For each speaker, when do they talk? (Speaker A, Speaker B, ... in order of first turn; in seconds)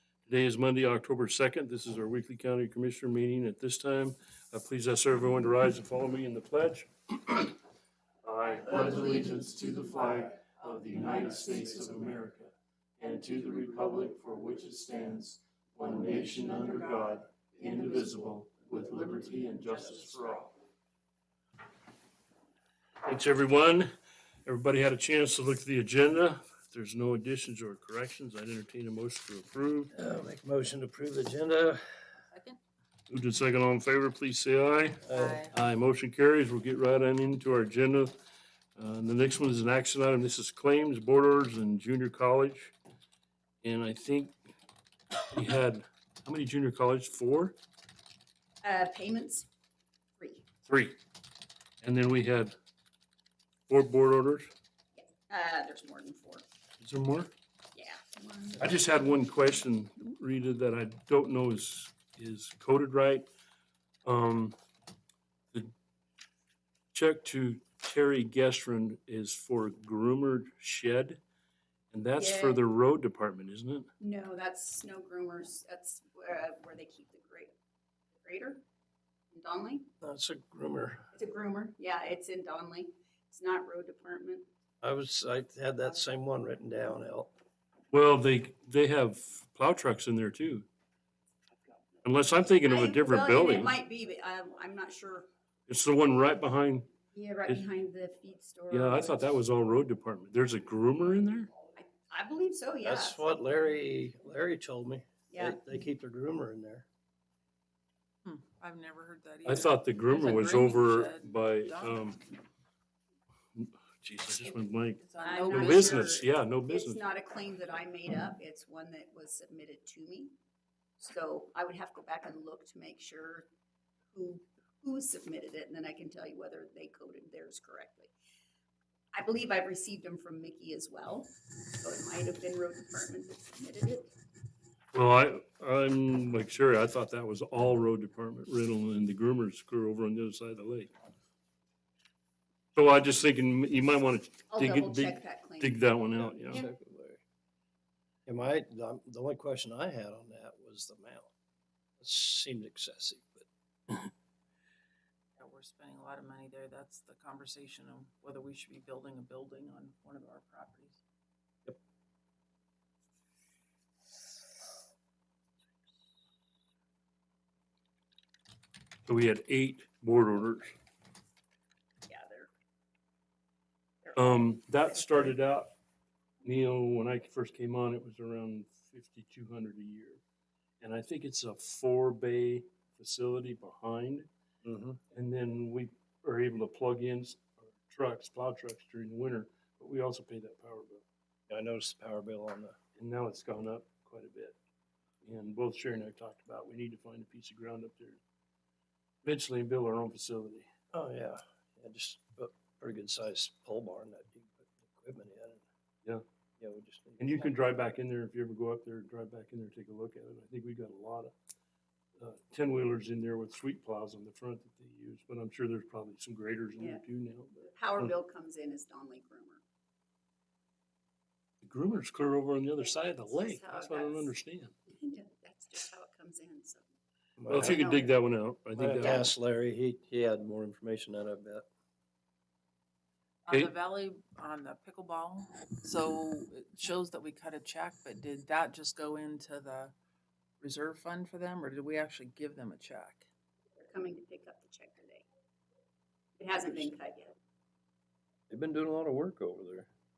Speaker A: 0.2-7.5, 8.2-20.5, 23.0-23.9, 24.4-29.9, 33.1-38.1, 38.8-42.7, 43.6-44.3, 45.3-47.5, 50.7-51.0, 51.8-52.5, 53.7-54.5, 56.8-57.3, 58.6-63.3, 64.0-64.6, 66.9-71.2, 71.9-73.9, 87.9-90.7, 92.0-93.8, 95.7-96.9, 98.7-101.5, 109.5-112.2, 113.6-117.1, 134.9-140.9, 142.7-146.7, 169.1-170.8, 174.1-175.7, 176.4-180.2, 180.8-184.3, 185.1-191.0, 192.9-194.6, 195.2-198.2, 199.2-200.7, 207.2-211.3, 212.2-218.1, 221.6-224.7, 227.5-229.3
Speaker B: 19.2-20.2, 32.3-32.6, 35.1-35.5, 108.2-112.1, 115.0-116.2, 155.4-161.0, 233.4-239.9, 240.6-243.3
Speaker C: 29.9-31.9, 35.1-35.4, 80.0-81.1, 84.8-87.3, 102.8-106.8, 146.2-147.2, 148.2-151.3, 152.0-153.4, 184.6-185.0, 191.5-192.8, 200.9-205.6, 206.6-207.5, 227.4-227.9, 228.8-231.7, 248.5-249.9
Speaker D: 48.6-49.5, 50.2-50.5, 55.0-56.5, 57.7-58.8, 72.2-72.6, 74.0-77.5, 78.2-78.6, 79.3-79.9, 81.2-84.5, 92.6-95.3, 97.1-99.3, 101.8-103.3, 105.3-105.6, 115.2-120.3, 121.0-123.5, 124.1-128.1, 129.1-134.1, 144.5-146.0, 172.1-172.5, 174.0-174.6, 216.8-217.0, 217.6-219.6, 222.8-224.3, 224.9-226.8, 227.5-228.2, 243.8-245.2, 246.4-247.3